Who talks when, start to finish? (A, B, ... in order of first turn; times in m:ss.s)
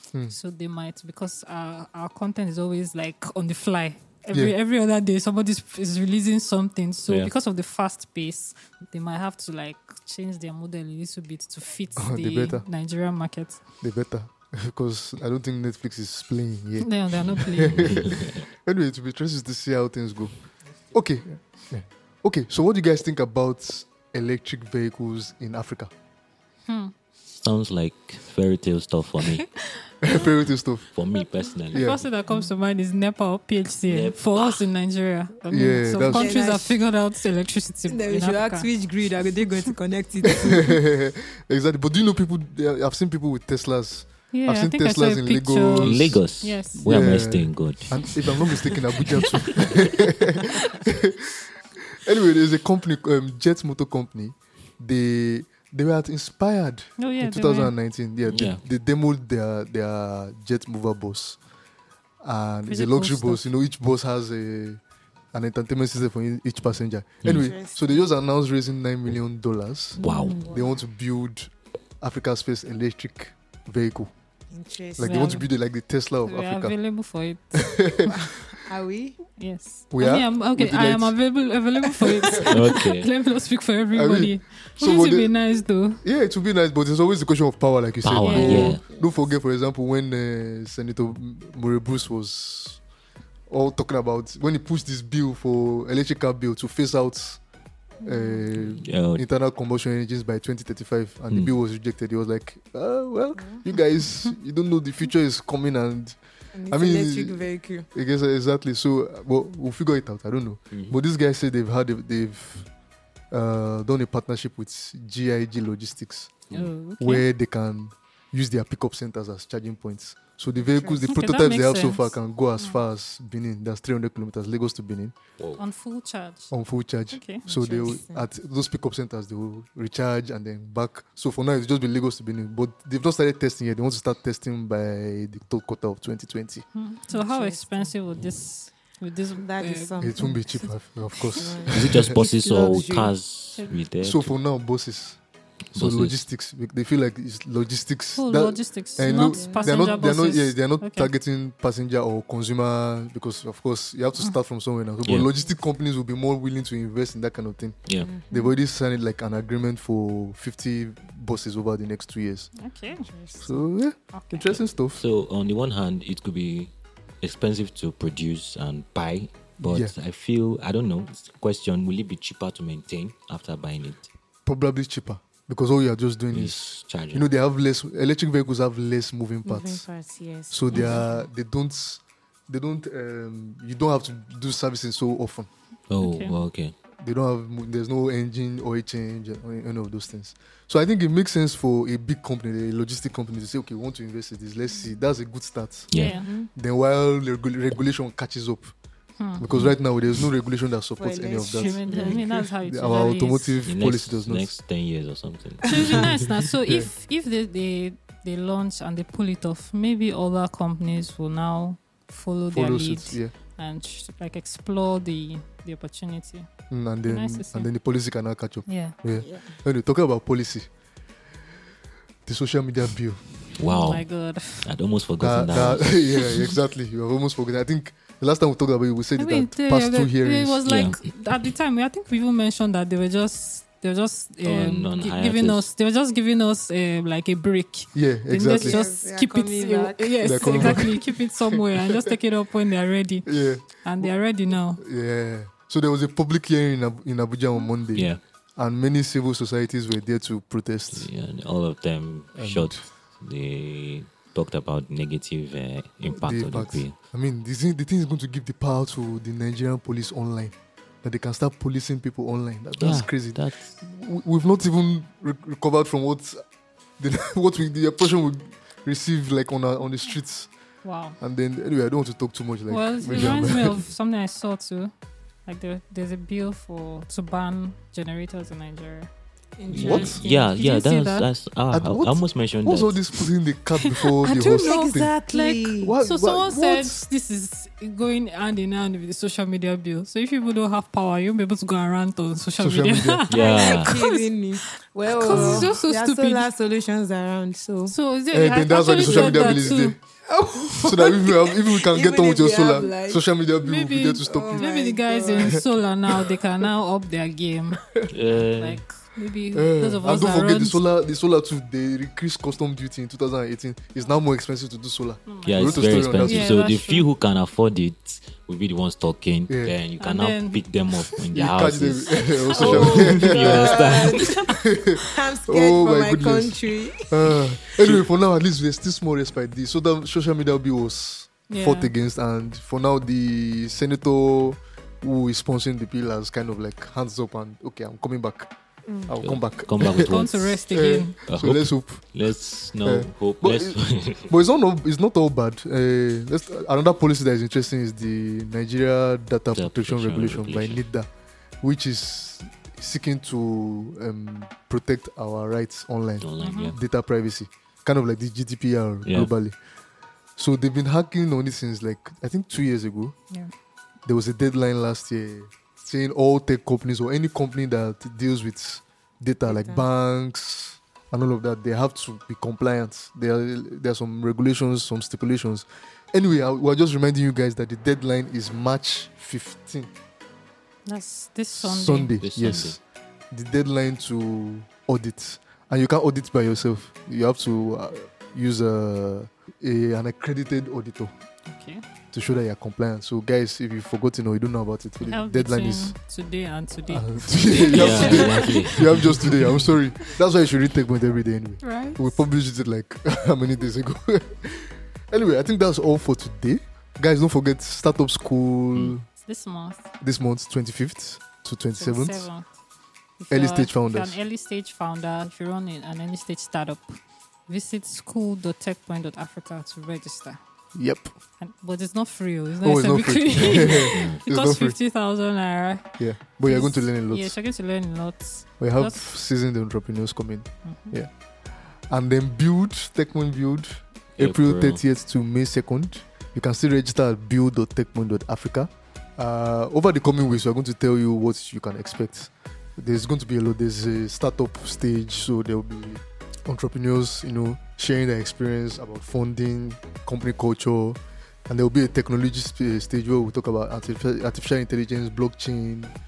0:00.3-0:13.6 A
0:12.0-0:12.6 B
0:13.8-0:20.3 B
0:16.8-0:18.2 A
0:17.6-0:18.4 C
0:20.9-0:25.9 B
0:26.7-0:26.9 A
0:27.3-0:29.4 C
0:29.2-0:30.3 A
0:30.0-0:30.9 B
0:30.9-0:32.0 C
0:31.7-0:32.0 B
0:31.7-0:38.7 A
0:33.9-0:34.7 C
0:35.5-0:36.4 B
0:36.0-0:36.8 D
0:37.9-0:40.8 D
0:40.5-0:46.2 B
0:44.3-0:47.2 A
0:45.8-0:48.0 C
0:46.8-1:01.4 B
0:49.2-0:49.8 C
0:57.0-0:57.7 A
0:58.3-0:58.6 C
1:02.2-1:04.8 B
1:02.7-1:03.5 A
1:05.3-1:14.1 B
1:07.2-1:07.5 C
1:07.3-1:08.0 D
1:10.0-1:10.4 C
1:10.0-1:10.6 A
1:10.4-1:10.7 D
1:14.5-1:15.3 D
1:15.0-1:16.8 B
1:15.0-1:15.5 A
1:16.2-1:17.9 A
1:17.5-1:18.1 B
1:18.1-1:19.2 D
1:19.4-1:26.0 A
1:19.9-1:21.2 B
1:22.5-1:23.1 C
1:23.9-1:25.3 B
1:26.0-1:32.8 B
1:28.0-1:28.8 C
1:28.2-1:28.8 A
1:28.8-1:29.2 D
1:33.5-1:37.4 B
1:38.0-1:46.2 B
1:38.0-1:38.4 D
1:38.6-1:39.2 C
1:43.4-1:43.8 D
1:46.5-1:47.9 D
1:46.7-1:52.7 B
1:50.7-1:51.0 C
1:53.3-1:56.3 B
1:56.5-1:57.2 A
1:57.0-2:05.1 B
2:00.5-2:01.1 D
2:01.1-2:02.8 A
2:05.6-2:06.5 A
2:06.5-2:16.6 B
2:07.1-2:07.4 A
2:07.4-2:08.3 D
2:16.7-2:20.7 A
2:17.1-2:17.9 D
2:19.4-2:20.5 D
2:20.0-2:22.1 B
2:21.3-2:23.2 D
2:21.7-2:24.3 C
2:24.0-2:25.2 B
2:25.7-2:26.2 C
2:25.7-2:42.5 B
2:28.1-2:31.1 A
2:29.0-2:30.1 D
2:35.0-2:35.3 C
2:38.0-2:38.6 D
2:42.6-2:43.1 A
2:42.9-2:43.6 D
2:43.4-2:45.0 B
2:44.1-2:44.6 A
2:44.9-2:54.1 C
2:49.6-2:49.9 B
2:54.4-2:59.8 B
2:56.3-2:57.3 C
2:59.4-3:01.2 D
3:00.5-3:05.5 B
3:05.9-3:06.7 C
3:06.0-3:06.3 A
3:07.0-3:15.9 B
3:14.7-3:15.0 D
3:15.9-3:16.2 C
3:15.9-3:16.3 A
3:16.0-3:16.5 D
3:16.5-3:18.7 B
3:19.2-3:19.4 A
3:19.4-3:24.5 B
3:19.5-3:19.8 C
3:21.0-3:22.5 D
3:21.6-3:23.6 A
3:23.6-3:26.2 C
3:25.6-3:36.5 A
3:26.6-3:26.9 B
3:32.5-3:33.3 B
3:36.7-3:40.7 B
3:37.1-3:37.7 A
3:38.6-3:38.9 A
3:39.2-3:39.6 D
3:42.2-3:43.3 B
3:43.6-3:44.1 C
3:43.6-3:44.7 A
3:44.6-3:46.0 C
3:45.2-3:50.6 B
3:45.4-3:46.5 A
3:49.2-4:04.8 A
3:50.6-3:51.0 C
3:54.4-3:55.7 C
3:57.9-3:58.8 B
3:58.5-4:00.9 D
4:00.2-4:02.1 B
4:03.2-4:04.1 B
4:04.8-4:11.1 B
4:07.9-4:08.2 C
4:10.9-4:17.0 C
4:12.3-4:12.8 B
4:16.1-4:26.4 B
4:22.8-4:23.8 C
4:27.0-4:30.5 B
4:30.8-4:31.2 A
4:31.2-4:33.8 B
4:32.7-4:34.9 A
4:35.4-4:39.1 A
4:39.6-4:40.5 D
4:39.7-4:43.0 C
4:39.8-4:41.3 A
4:41.7-4:45.1 B
4:43.8-4:54.3 A
4:44.4-4:46.0 D
4:45.8-4:47.0 B
4:52.6-4:53.2 B
4:53.3-4:54.0 C
4:53.4-4:57.9 D
4:55.1-4:56.5 A
4:55.2-4:55.8 B
4:57.8-5:00.0 A
4:58.3-5:00.0 B
4:59.0-4:59.8 D
5:00.3-5:03.2 D
5:00.8-5:04.6 B
5:03.6-5:07.8 A
5:04.2-5:05.6 D
5:08.1-5:08.8 C
5:08.5-5:10.8 A
5:09.5-5:16.5 B
5:15.2-5:17.1 A
5:15.4-5:24.4 C
5:19.5-5:19.7 B
5:20.0-5:20.6 A
5:21.3-5:23.7 B
5:22.5-5:24.5 A
5:22.8-5:24.5 D
5:24.5-5:38.5 B
5:25.1-5:27.4 D
5:31.5-5:31.9 A
5:38.9-5:39.1 D
5:39.1-5:40.1 B
5:39.2-5:40.6 C
5:39.8-5:41.2 A
5:40.7-5:42.0 B
5:41.2-5:44.3 C
5:42.8-5:51.1 B
5:49.5-5:50.8 C
5:51.6-5:59.6 B
5:56.2-5:56.8 C
5:56.4-5:56.7 A
5:59.0-5:59.3 C
6:00.4-6:03.1 B
6:04.0-6:19.9 B
6:09.4-6:09.9 D
6:20.8-6:22.2 A
6:21.5-6:31.1 B
6:22.2-6:22.8 C
6:31.5-6:31.8 A
6:32.1-6:35.9 B
6:35.0-6:38.9 A
6:36.9-6:49.0 B
6:37.7-6:39.6 C
6:41.6-6:42.2 A
6:49.2-6:49.8 A
6:50.0-6:52.3 B
6:51.8-6:52.5 A
6:53.2-7:00.4 A
6:53.3-6:54.2 B
7:00.7-7:01.1 B
7:01.4-7:09.1 A
7:02.6-7:04.8 B
7:03.4-7:04.2 C
7:06.0-7:07.4 B
7:08.6-7:11.1 B
7:10.6-7:11.0 A
7:11.9-7:35.9 B
7:14.2-7:14.8 C